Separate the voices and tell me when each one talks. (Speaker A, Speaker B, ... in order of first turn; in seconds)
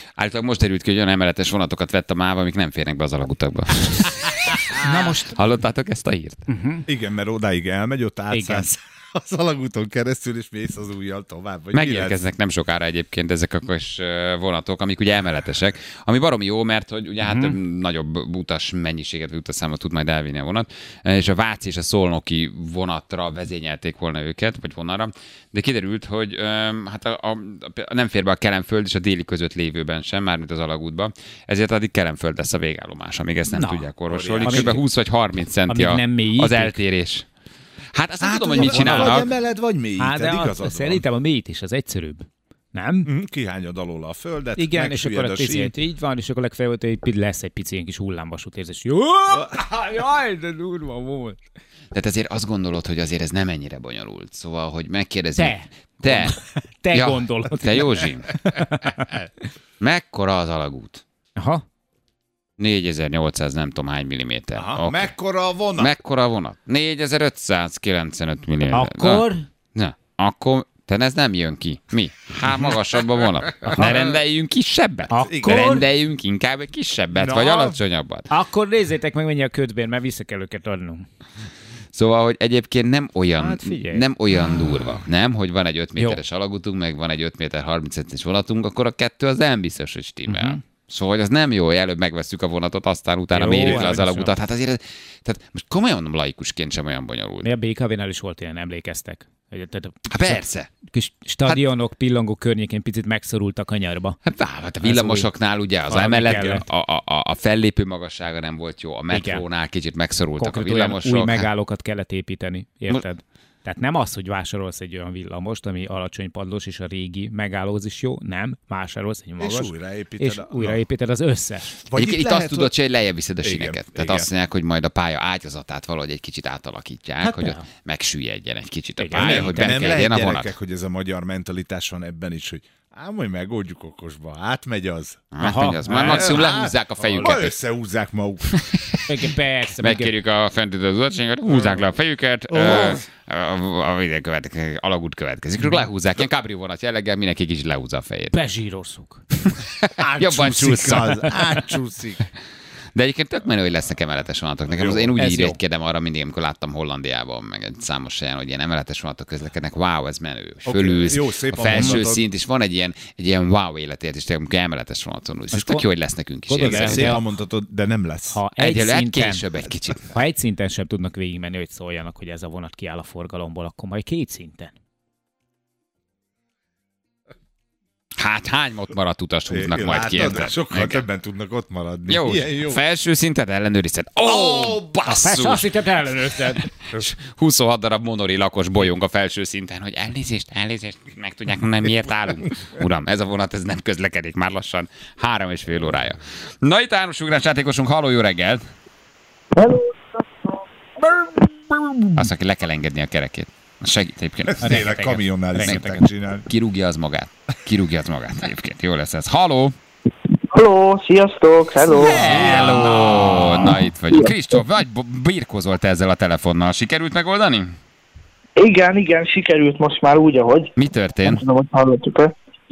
Speaker A: 0.2-6.5, 11.7-37.3, 37.9-39.3, 51.9-56.4, 56.9-58.3, 59.8-61.0, 62.6-65.1, 65.8-78.3, 81.9-97.5, 100.1-100.7, 104.3-111.5, 122.0-130.5, 135.3-137.5, 138.6-139.0, 139.8-148.3, 149.6-151.3, 152.9-167.2, 168.6-170.1, 178.2-181.0, 182.1-185.7, 186.9-198.6, 202.2-205.0, 205.6-205.9, 206.5-209.8, 211.9-217.7, 220.8-221.4
Speaker B: 4.7-5.4, 6.5-6.9, 8.3-8.7, 17.2-17.6, 33.5-33.9, 34.4-34.8, 35.7-36.8, 38.6-39.2, 40.0-43.1, 44.6-51.4, 55.4-59.2, 61.4-61.6, 68.7-69.5, 75.1-75.9, 78.3-81.0, 83.4-84.0, 90.3-90.6, 93.3-94.3, 97.4-100.4, 100.9-104.2, 104.8-105.3, 105.9-106.6, 109.1-109.5, 110.4-121.8, 127.2-127.7, 129.0-130.0, 135.4-136.4, 139.1-140.1, 148.3-149.2, 155.2-155.6, 161.7-162.0, 165.5-165.9, 166.5-167.2, 168.3-169.4, 170.1-174.7, 185.1-186.7, 204.6-206.1
Speaker C: 6.9-12.2, 34.1-34.8, 38.2-41.0, 43.0-45.7, 64.6-65.9, 75.3-75.7, 77.1-77.8, 119.4-120.8, 121.8-122.7, 123.4-124.3, 129.2-135.3, 135.9-138.6, 141.5-141.8, 142.5-143.1, 150.0-152.3, 154.7-155.2, 160.7-162.2, 166.6-168.4, 179.5-182.8, 184.3-185.3, 204.5-206.5, 212.0-213.7
Speaker D: 199.6-199.9, 210.5-212.6, 218.6-220.7, 221.2-222.3